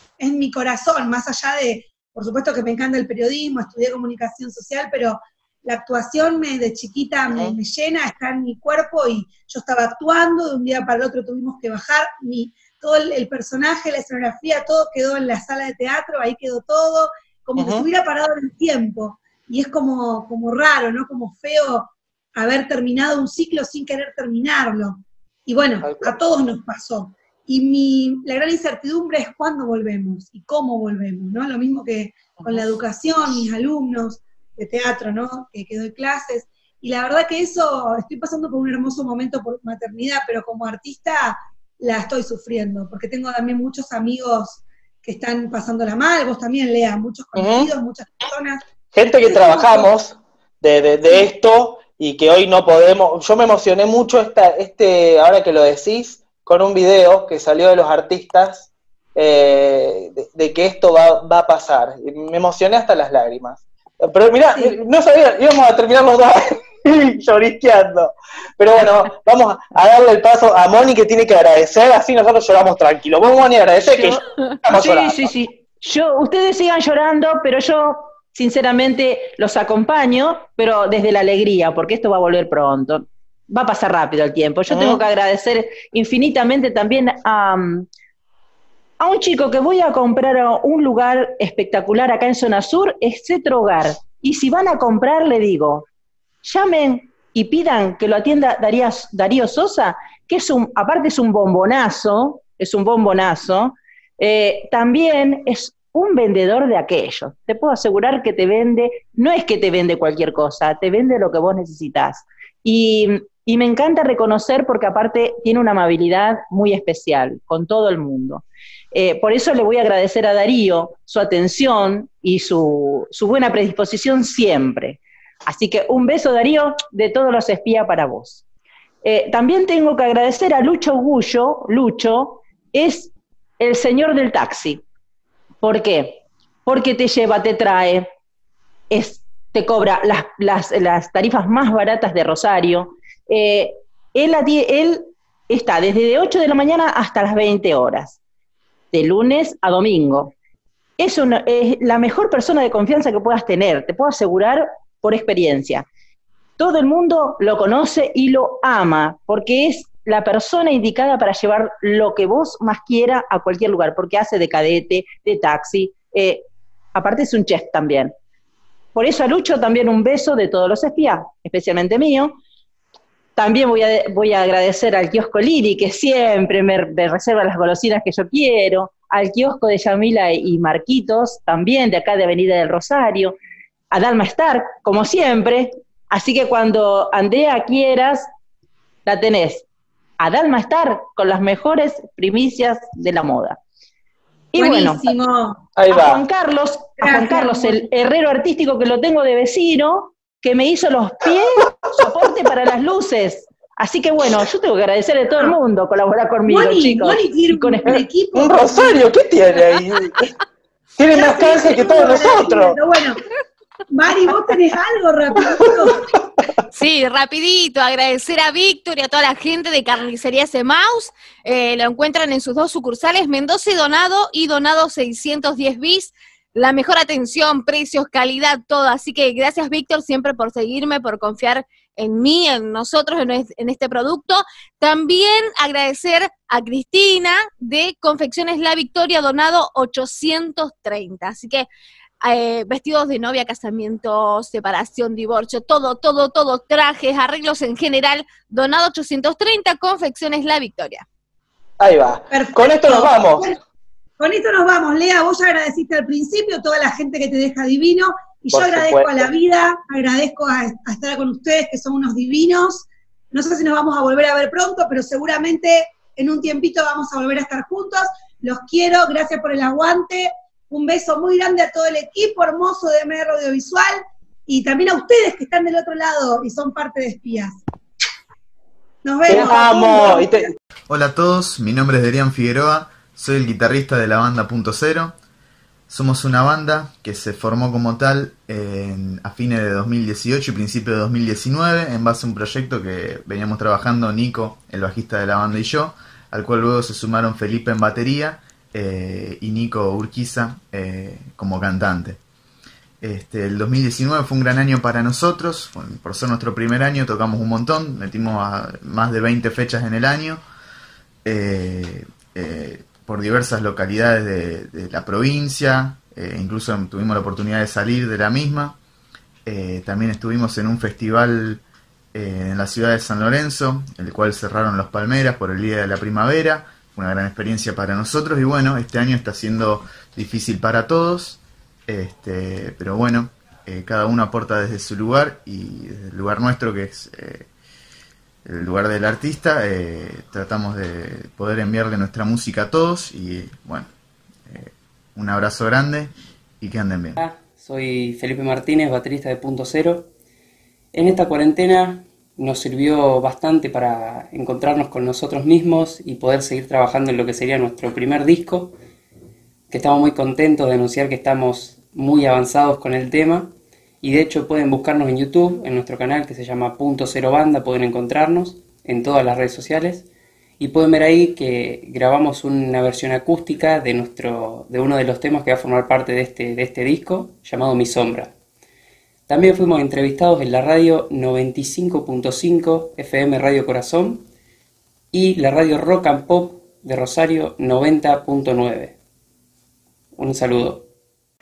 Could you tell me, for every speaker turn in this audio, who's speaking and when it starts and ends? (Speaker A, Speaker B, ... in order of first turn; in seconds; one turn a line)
Speaker A: 0.2-48.6
Speaker B: 17.6-17.9
Speaker B: 25.8-26.1
Speaker B: 32.4-32.7
Speaker B: 47.4-47.7
Speaker B: 48.9-75.3
Speaker A: 49.2-49.9
Speaker C: 73.9-87.9
Speaker B: 84.7-85.0
Speaker C: 89.0-95.9
Speaker C: 96.4-128.4
Speaker C: 129.0-134.8
Speaker C: 135.6-138.1
Speaker C: 138.9-148.2
Speaker C: 148.9-150.3
Speaker C: 151.0-155.8
Speaker C: 156.6-168.1
Speaker C: 168.9-172.4
Speaker C: 173.4-183.4
Speaker C: 183.9-188.3
Speaker C: 189.1-189.6
Speaker C: 190.2-193.6
Speaker C: 194.5-195.1
Speaker A: 194.6-195.7
Speaker B: 195.8-196.2
Speaker C: 195.9-208.0
Speaker A: 197.0-197.8
Speaker A: 206.5-209.2
Speaker B: 208.3-210.2
Speaker B: 211.0-212.8
Speaker A: 211.1-213.2
Speaker A: 213.9-216.1
Speaker D: 216.7-241.7
Speaker D: 242.2-251.1
Speaker B: 251.8-253.5
Speaker A: 252.3-253.6
Speaker A: 254.2-277.6
Speaker B: 258.5-259.3
Speaker A: 279.0-280.5
Speaker B: 279.3-280.5
Speaker E: 280.9-285.2
Speaker E: 285.9-302.2
Speaker E: 303.0-310.4
Speaker E: 311.2-318.8
Speaker E: 319.5-321.6
Speaker E: 322.1-337.5
Speaker E: 338.5-343.9
Speaker E: 344.5-347.2
Speaker F: 347.2-350.1
Speaker F: 350.9-358.8
Speaker F: 359.7-370.1
Speaker F: 370.6-378.3
Speaker F: 379.3-384.3
Speaker F: 385.1-389.0
Speaker F: 390.2-390.9